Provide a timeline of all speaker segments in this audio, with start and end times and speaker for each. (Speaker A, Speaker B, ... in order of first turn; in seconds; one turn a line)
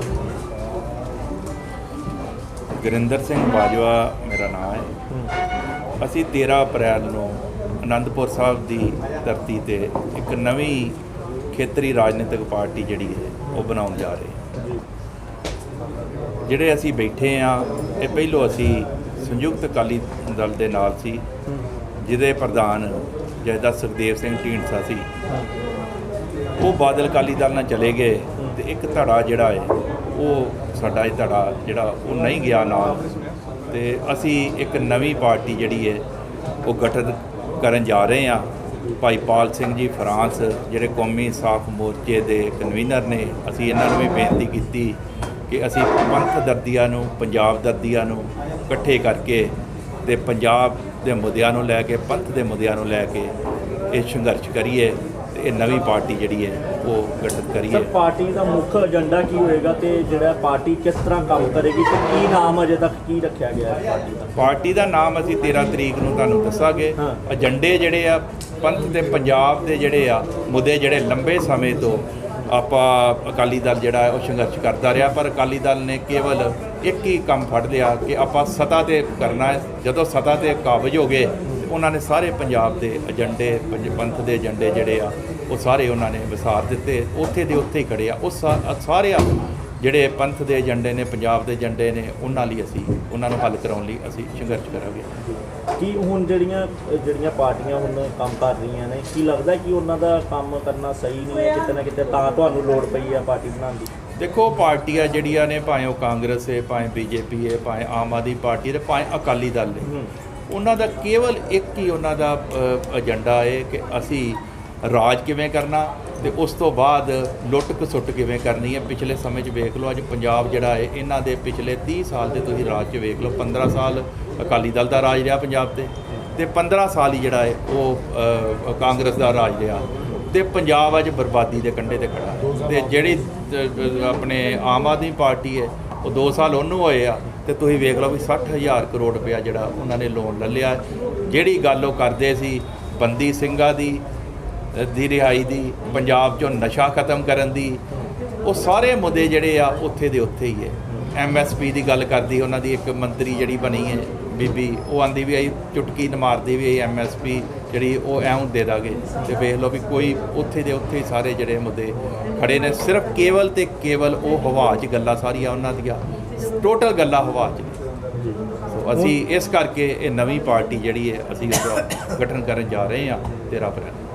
Speaker A: 2.8-4.9
Speaker A: 6.0-11.0
Speaker A: 11.5-14.4
Speaker B: 14.6-14.8
Speaker A: 16.5-21.2
Speaker A: 22.0-25.1
Speaker B: 25.3-25.5
Speaker A: 26.6-33.1
Speaker A: 33.7-36.0
Speaker A: 36.6-53.4
Speaker A: 53.9-57.9
Speaker B: 57.7-64.4
Speaker A: 64.4-95.1
Speaker B: 67.0-67.2
Speaker B: 95.2-103.9
Speaker A: 104.2-109.9
Speaker B: 109.8-110.1
Speaker A: 110.5-144.0
Speaker A: 144.7-147.8
Speaker A: 148.4-167.8
Speaker B: 168.2-169.1
Speaker A: 168.7-174.0